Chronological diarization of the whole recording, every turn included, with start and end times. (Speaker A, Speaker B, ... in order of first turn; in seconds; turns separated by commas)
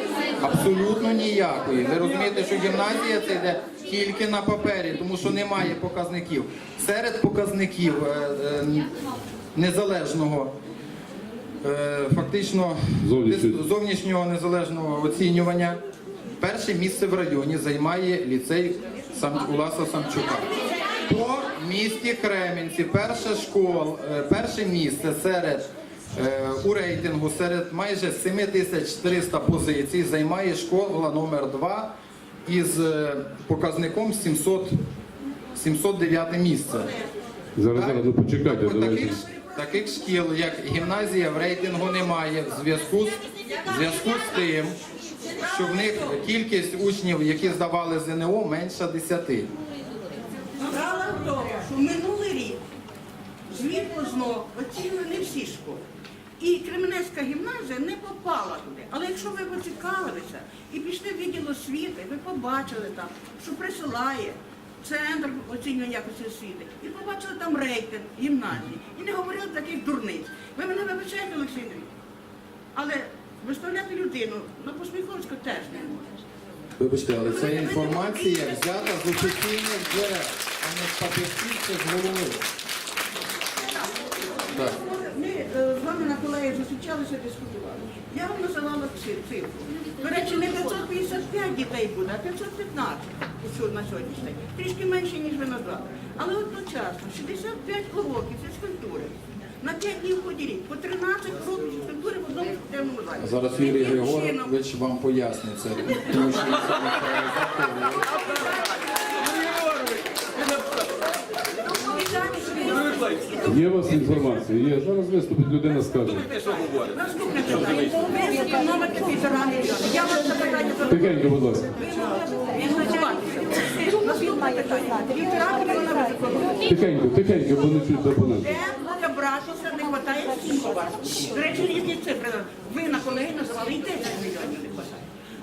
Speaker A: 0.4-8.9, Speaker A: 9.6-10.5, Speaker A: 11.6-15.8, Speaker B: 13.0-13.7, Speaker A: 16.4-20.5, Speaker A: 21.1-34.8, Speaker A: 35.5-36.9, Speaker B: 37.6-39.2, Speaker A: 37.7-44.8, Speaker A: 45.4-49.5, Speaker C: 50.6-52.6, Speaker C: 53.5-55.8, Speaker C: 56.4-71.9, Speaker C: 72.8-76.2, Speaker A: 76.8-82.5, Speaker C: 77.2-79.2, Speaker C: 83.6-104.5, Speaker A: 103.2-108.1, Speaker C: 111.6-113.6, Speaker B: 113.5-116.3, Speaker C: 116.4-126.8, Speaker B: 120.9-121.7, Speaker B: 126.7-128.5, Speaker C: 128.4-135.1